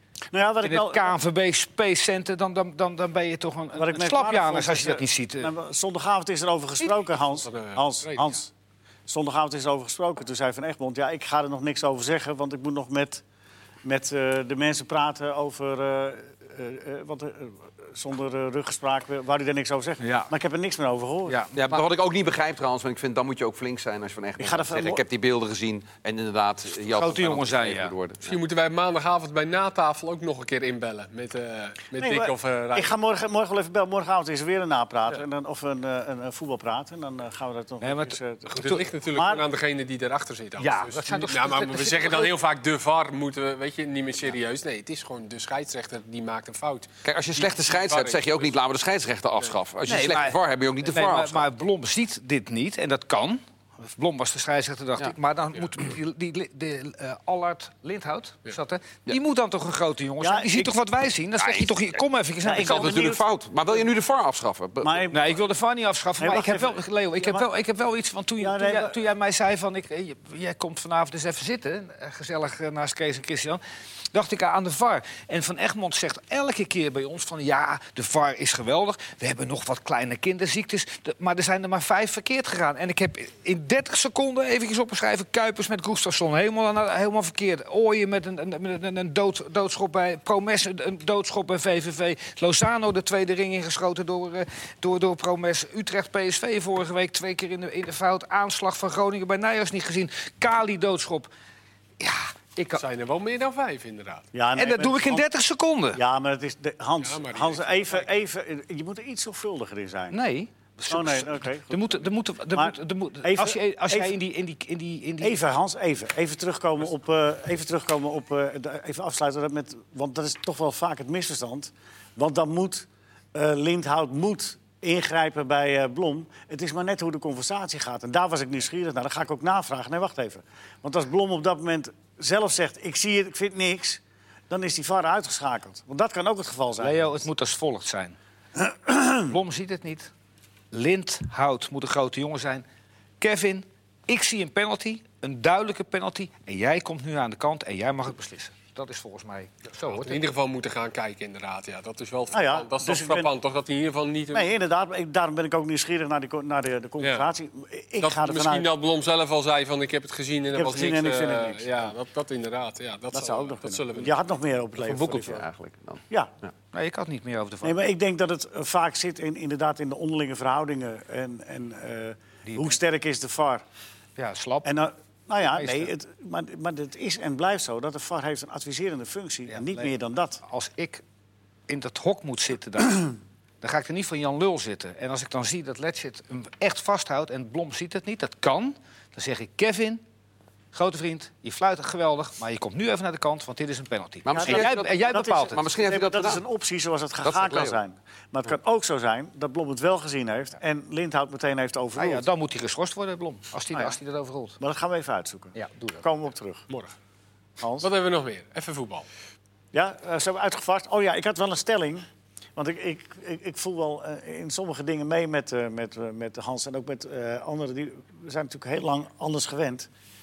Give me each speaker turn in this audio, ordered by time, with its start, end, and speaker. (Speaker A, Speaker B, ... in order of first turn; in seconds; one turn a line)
Speaker A: 0.3-1.1
Speaker B: 0.6-5.5
Speaker A: 3.8-8.5
Speaker C: 7.2-8.3
Speaker A: 9.1-13.2
Speaker A: 13.8-21.4
Speaker B: 20.0-20.3
Speaker B: 21.3-21.9
Speaker D: 21.5-28.4
Speaker A: 24.4-25.0
Speaker B: 26.9-27.9
Speaker C: 28.2-33.0
Speaker A: 32.0-39.4
Speaker B: 37.8-38.8
Speaker C: 38.5-48.5
Speaker B: 40.6-42.3
Speaker D: 47.0-51.5
Speaker B: 49.9-63.1
Speaker A: 60.2-60.7
Speaker D: 61.4-61.8
Speaker A: 62.4-63.2
Speaker D: 62.5-65.1
Speaker A: 64.8-65.2
Speaker B: 65.1-73.6
Speaker A: 66.2-67.5
Speaker A: 68.4-69.0
Speaker B: 74.1-101.3
Speaker B: 102.0-102.8
Speaker C: 102.8-104.3
Speaker A: 104.3-105.3
Speaker B: 104.5-106.0
Speaker A: 106.0-110.2
Speaker C: 107.0-108.1
Speaker B: 110.1-115.4
Speaker A: 110.9-111.9
Speaker A: 112.5-114.1
Speaker A: 115.2-137.2
Speaker B: 136.8-138.2
Speaker A: 138.7-139.2
Speaker B: 139.2-140.1
Speaker B: 140.7-142.7
Speaker B: 143.2-150.2
Speaker C: 149.9-154.5
Speaker A: 152.3-153.3
Speaker A: 154.3-158.7
Speaker C: 157.0-157.3
Speaker C: 158.0-164.2
Speaker A: 160.5-161.9
Speaker A: 163.1-165.4
Speaker D: 164.8-166.5
Speaker B: 166.7-167.8
Speaker A: 167.6-173.6
Speaker B: 172.5-172.8
Speaker B: 174.2-174.7
Speaker A: 174.7-180.4
Speaker B: 175.4-175.9
Speaker B: 179.5-181.0
Speaker B: 181.7-190.0
Speaker B: 190.7-195.6
Speaker D: 194.3-194.9
Speaker A: 194.3-202.2
Speaker D: 195.5-196.4
Speaker D: 197.2-197.8
Speaker B: 202.0-204.6
Speaker A: 204.6-206.7
Speaker B: 205.5-206.1
Speaker C: 206.7-206.9
Speaker A: 207.6-207.9
Speaker C: 207.8-209.1
Speaker A: 209.7-219.9